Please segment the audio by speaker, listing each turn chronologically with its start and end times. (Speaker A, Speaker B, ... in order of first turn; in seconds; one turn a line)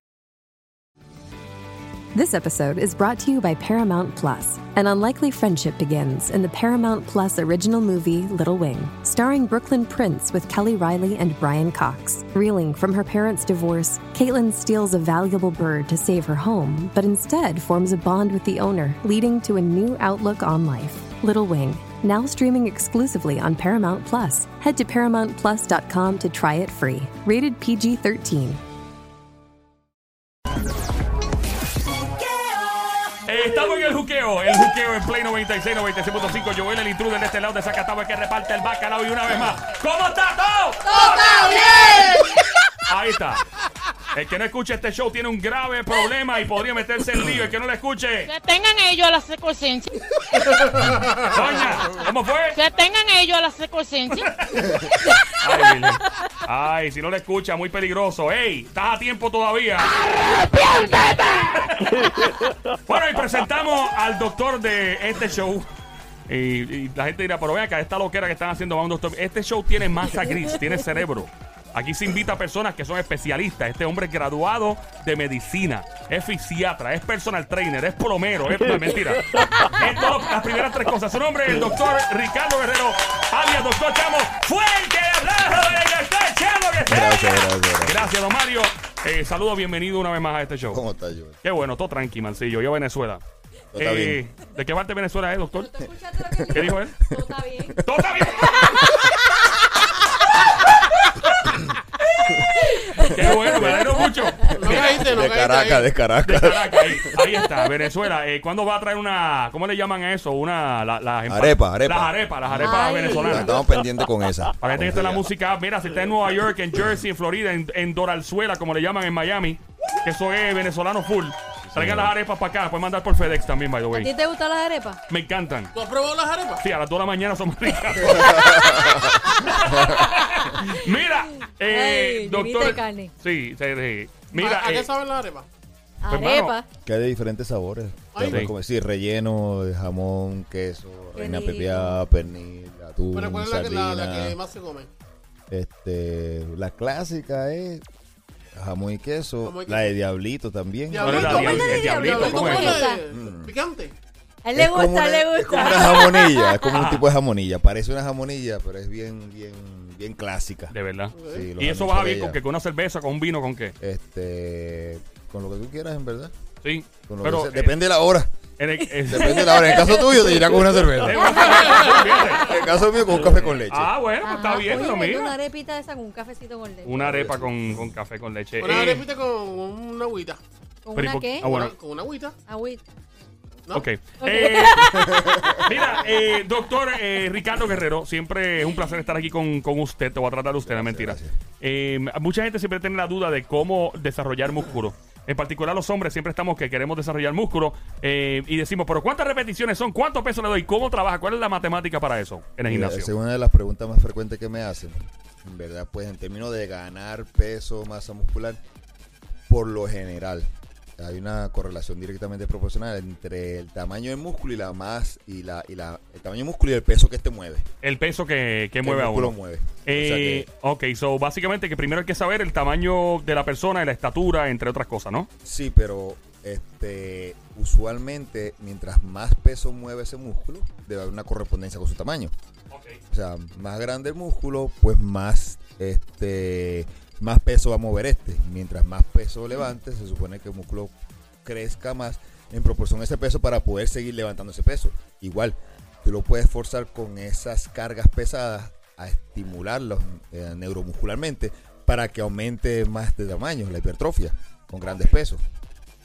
Speaker A: 2.1-28.6
Speaker B: 33.2-41.6
Speaker C: 40.9-42.2
Speaker D: 41.5-42.2
Speaker B: 42.9-43.4
Speaker B: 44.1-48.3
Speaker E: 48.3-49.9
Speaker D: 50.4-51.4
Speaker B: 51.2-52.6
Speaker E: 52.5-54.3
Speaker B: 54.1-54.8
Speaker B: 55.4-59.9
Speaker B: 60.5-65.7
Speaker B: 66.3-90.8
Speaker F: 86.8-88.1
Speaker F: 90.7-91.4
Speaker B: 91.4-93.2
Speaker F: 93.7-94.2
Speaker B: 93.8-95.8
Speaker C: 95.5-97.8
Speaker F: 96.3-99.1
Speaker B: 96.5-96.9
Speaker B: 97.8-98.8
Speaker C: 102.6-103.2
Speaker F: 103.0-107.2
Speaker B: 103.0-105.1
Speaker D: 104.5-105.9
Speaker B: 106.2-113.8
Speaker F: 111.3-115.3
Speaker C: 112.6-113.6
Speaker B: 114.6-124.1
Speaker F: 121.7-122.1
Speaker C: 123.9-125.0
Speaker B: 125.1-125.7
Speaker D: 125.7-126.6
Speaker B: 126.6-128.7
Speaker F: 128.0-130.1
Speaker C: 129.3-130.8
Speaker B: 129.4-134.9
Speaker C: 131.6-133.1
Speaker D: 134.3-135.5
Speaker C: 136.0-136.7
Speaker B: 136.1-136.5
Speaker F: 136.8-144.4
Speaker D: 138.1-138.4
Speaker B: 138.2-138.5
Speaker C: 141.2-142.0
Speaker D: 143.1-144.9
Speaker F: 145.5-147.8
Speaker F: 148.5-151.9
Speaker D: 149.4-149.9
Speaker D: 150.9-153.9
Speaker B: 151.0-152.9
Speaker C: 151.2-153.0
Speaker F: 153.1-153.5
Speaker C: 154.4-156.7
Speaker F: 154.5-162.4
Speaker B: 156.7-157.0
Speaker B: 160.7-163.8
Speaker D: 161.1-161.5
Speaker F: 163.8-166.3
Speaker B: 166.6-167.7
Speaker F: 167.1-168.3
Speaker B: 168.6-170.0
Speaker F: 169.0-173.9
Speaker C: 169.3-170.2
Speaker B: 171.0-175.3
Speaker C: 171.2-171.9
Speaker D: 171.3-172.4
Speaker C: 174.2-176.9
Speaker B: 176.8-179.1
Speaker F: 177.0-177.5
Speaker D: 178.6-180.4
Speaker C: 180.8-181.5
Speaker B: 180.9-181.7
Speaker D: 181.4-182.3
Speaker C: 182.5-182.8
Speaker B: 183.7-203.1
Speaker C: 184.2-185.4
Speaker F: 184.9-185.7
Speaker F: 190.6-191.3
Speaker F: 202.7-208.6
Speaker F: 209.5-217.7
Speaker B: 217.8-219.3
Speaker F: 218.8-220.4
Speaker B: 219.8-225.3
Speaker F: 225.4-232.3
Speaker B: 232.7-233.0
Speaker F: 233.1-255.4